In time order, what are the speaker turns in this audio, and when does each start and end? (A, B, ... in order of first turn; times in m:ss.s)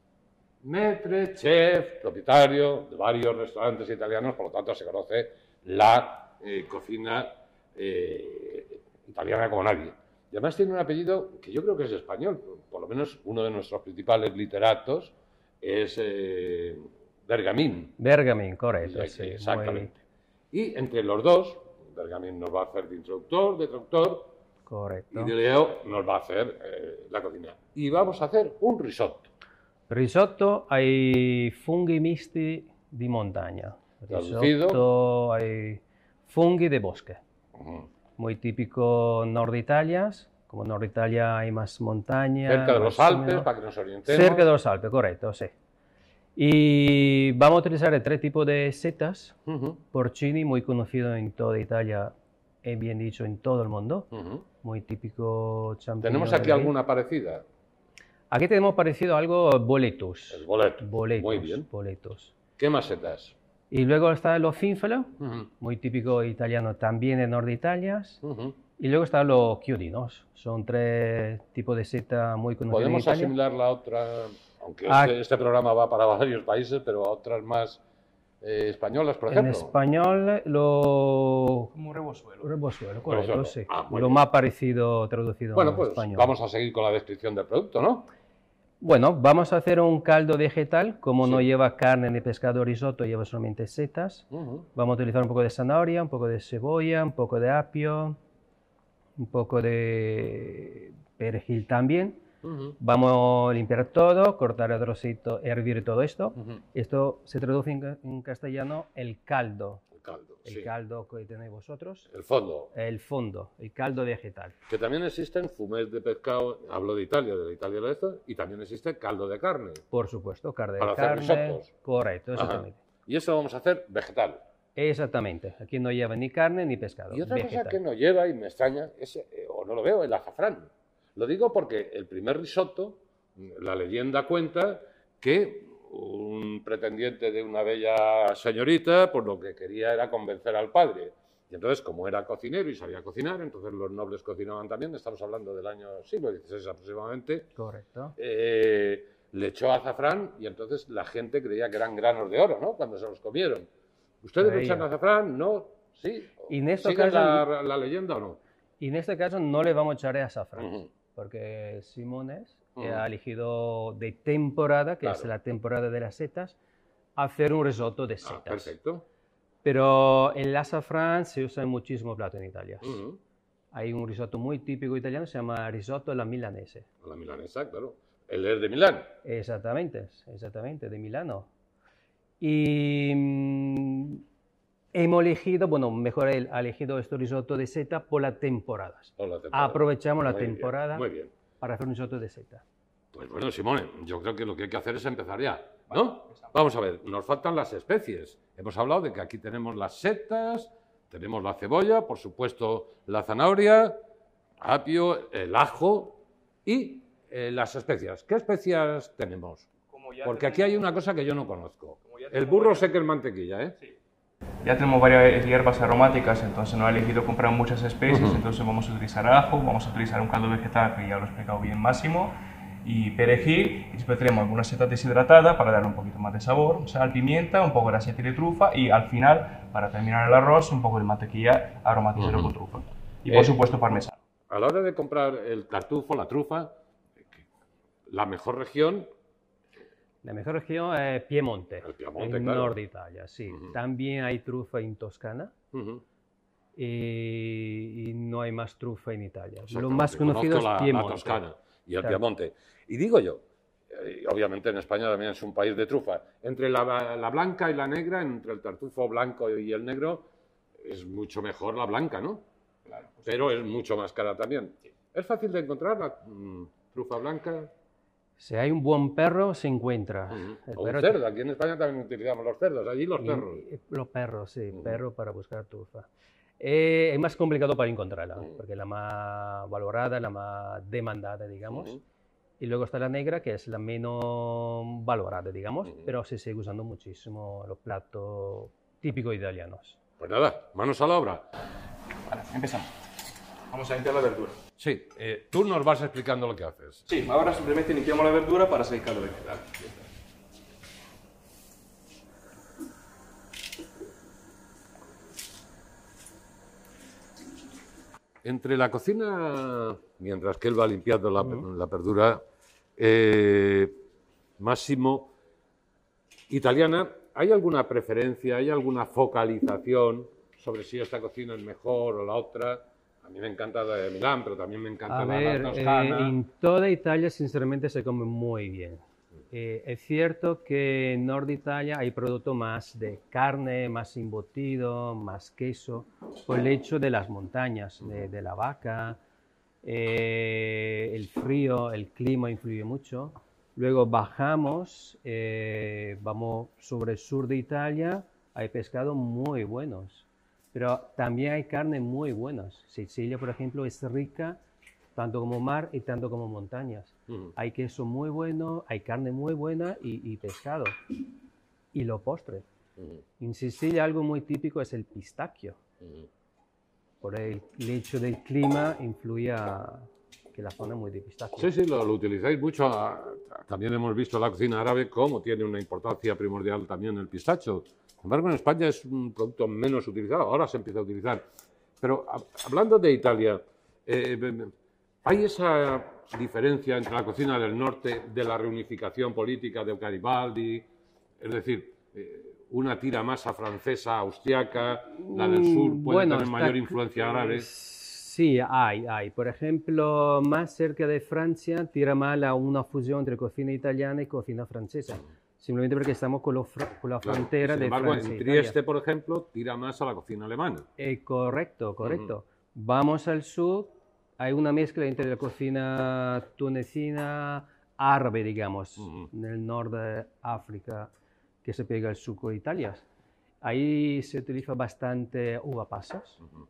0:00.6-0:18.0 A
0:18.0-0:19.9 B
0:18.8-0:20.0 A
0:20.5-0:24.3 A
0:24.6-0:25.3 B
0:25.1-0:29.3 A
0:29.9-0:37.2 B
0:34.1-0:34.8 A
0:37.6-0:37.9 A
0:38.2-0:43.5 B
0:42.4-0:44.5 A
0:44.1-0:45.5 B
0:46.4-0:49.4 B
0:49.5-0:49.8 A
0:49.9-0:52.1 B
0:52.6-0:54.1 B
0:54.1-0:54.4 A
0:54.6-0:56.7 B
0:56.0-0:57.4 A
0:58.3-1:02.3 B
1:00.3-1:01.7 A
1:02.6-1:03.4 A
1:03.7-1:08.2 B
1:05.2-1:05.5 A
1:08.2-1:08.6 A
1:08.8-1:13.3 B
1:12.7-1:17.8 A
1:14.9-1:15.2 B
1:18.4-1:19.7 A
1:19.3-1:21.7 B
1:21.7-1:22.5 C
1:22.4-1:26.3 B
1:23.1-1:24.2 A
1:25.5-1:28.1 A
1:28.8-1:38.2 B
1:31.2-1:31.5 A
1:34.3-1:34.6 A
1:39.2-1:42.2 B
1:42.4-1:42.7 A
1:42.8-1:49.8 B
1:50.0-1:50.7 A
1:50.4-1:52.1 B
1:52.1-1:52.7 A
1:52.7-1:54.5 B
1:54.7-1:59.8 A
1:59.9-2:02.8 B
2:00.8-2:01.7 A
2:02.3-2:04.4 A
2:04.8-2:07.8 B
2:07.1-2:27.5 A
2:27.6-2:28.1 B
2:28.2-2:33.7 A
2:34.2-2:38.4 A
2:34.4-2:34.9 B
2:36.5-2:37.5 B
2:38.8-2:46.6 B
2:40.6-2:40.9 A
2:42.8-2:43.0 A
2:45.0-2:45.3 A
2:47.2-2:48.7 B
2:48.2-2:49.0 A
2:49.6-2:53.0 B
2:52.8-2:53.2 A
2:53.7-2:56.9 B
2:57.0-2:59.1 A
2:59.2-3:01.5 B
3:02.4-3:04.2 B
3:04.9-3:11.1 B
3:09.2-3:11.3 A
3:11.6-3:12.6 B
3:13.1-3:24.0 A
3:15.9-3:16.6 C
3:24.6-3:29.7 A
3:29.9-3:30.9 C
3:30.2-3:33.8 A
3:32.0-3:32.9 C
3:34.6-3:54.2 C
3:38.1-3:38.4 A
3:52.2-3:52.5 A
3:54.5-3:57.4 A
3:58.1-3:59.1 A
4:00.2-4:05.5 B
4:01.8-4:02.8 A
4:03.5-4:03.8 A
4:05.7-4:06.0 A
4:06.8-4:11.4 B
4:09.7-4:20.3 A
4:20.8-4:22.4 A
4:22.9-4:23.5 C
4:23.2-4:27.7 A
4:28.4-4:31.2 B
4:30.3-4:33.6 A
4:33.2-4:36.1 B
4:34.7-4:35.0 A
4:36.6-4:42.0 B
4:41.7-4:42.0 A
4:42.6-4:50.0 B
4:45.8-4:46.1 A
4:50.2-4:51.5 A
4:52.3-4:52.9 C
4:53.7-4:54.6 C
4:54.8-4:57.1 A
4:57.1-5:00.0 C
5:08.4-5:12.4 A
5:13.0-5:14.0 A
5:14.6-5:15.3 A
5:16.5-5:26.4 A
5:25.1-5:39.2 B
5:39.8-5:54.6 B
5:55.1-6:01.0 B
5:57.3-5:57.5 A
6:01.9-6:02.6 B
6:03.4-6:05.8 B
6:06.0-6:06.3 A
6:07.2-6:11.7 B
6:11.6-6:21.4 A
6:22.0-6:24.7 A
6:25.2-6:30.8 A
6:31.4-6:37.7 A
6:35.1-6:48.8 B
6:47.2-6:50.9 A
6:51.0-7:01.1 B
6:52.0-6:52.3 A
6:59.0-6:59.3 A
7:01.6-7:03.0 B
7:03.6-7:06.4 B